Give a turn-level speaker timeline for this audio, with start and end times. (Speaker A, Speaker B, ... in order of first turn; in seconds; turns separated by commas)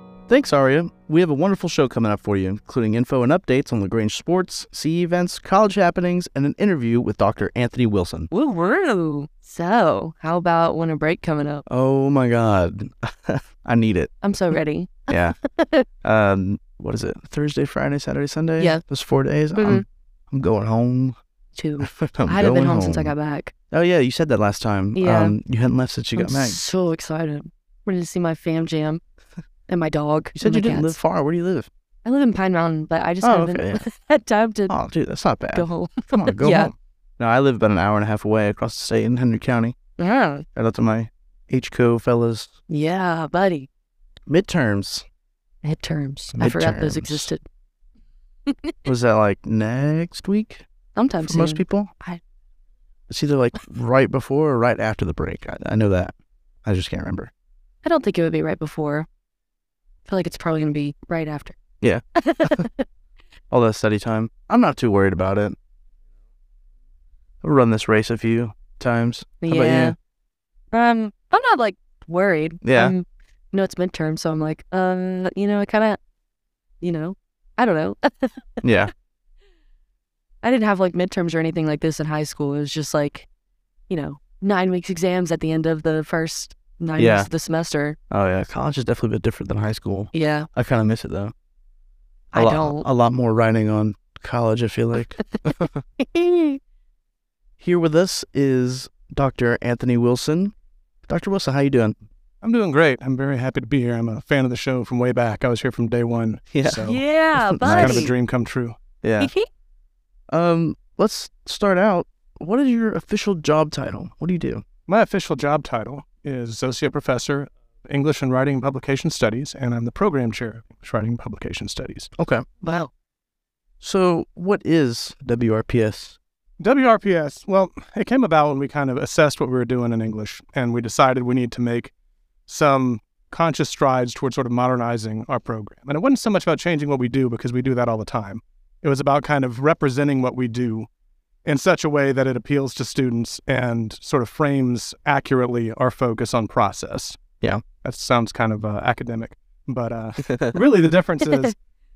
Speaker A: 0.3-8.3, Speaker B: 8.3-11.6, Speaker A: 11.7-14.1, Speaker B: 14.2-15.8, Speaker A: 15.1-15.3, Speaker A: 16.0-21.1, Speaker B: 19.5-19.8, Speaker B: 21.5-23.5, Speaker A: 21.8-23.1, Speaker A: 23.7-26.6, Speaker B: 24.9-25.4, Speaker B: 26.1-29.0, Speaker B: 29.7-31.0, Speaker A: 30.3-31.7, Speaker B: 32.0-34.8, Speaker A: 33.2-33.8, Speaker A: 34.7-39.7, Speaker B: 35.5-36.7, Speaker B: 40.0-40.4, Speaker A: 40.5-42.5, Speaker B: 42.7-43.7, Speaker A: 44.3-45.0, Speaker B: 45.6-47.4, Speaker A: 46.3-47.3, Speaker A: 48.9-50.7, Speaker B: 50.9-52.2, Speaker A: 51.2-51.9, Speaker A: 53.1-57.3, Speaker B: 57.8-59.1, Speaker B: 60.1-61.6, Speaker A: 61.8-62.6, Speaker B: 62.2-62.8, Speaker A: 63.5-65.5, Speaker A: 67.4-69.9, Speaker B: 69.4-70.0, Speaker B: 70.7-76.0, Speaker A: 72.6-72.9, Speaker B: 76.8-78.5, Speaker A: 78.6-78.9, Speaker B: 80.4-83.3, Speaker B: 83.9-88.0, Speaker A: 87.0-87.3, Speaker A: 88.1-91.3, Speaker B: 90.1-90.5, Speaker B: 92.3-92.8, Speaker A: 92.3-95.8, Speaker B: 96.1-96.6, Speaker A: 97.6-100.5, Speaker A: 101.1-101.9, Speaker C: 102.4-107.0, Speaker A: 106.5-106.8, Speaker B: 106.8-108.1, Speaker A: 107.4-108.1, Speaker C: 107.6-108.8, Speaker A: 109.0-109.3, Speaker B: 109.2-109.5, Speaker A: 110.3-114.6, Speaker C: 114.9-122.1, Speaker A: 122.2-122.6, Speaker B: 122.6-122.9, Speaker A: 123.8-126.2, Speaker C: 126.6-131.9, Speaker C: 132.5-140.9, Speaker C: 141.4-147.2, Speaker C: 147.8-151.6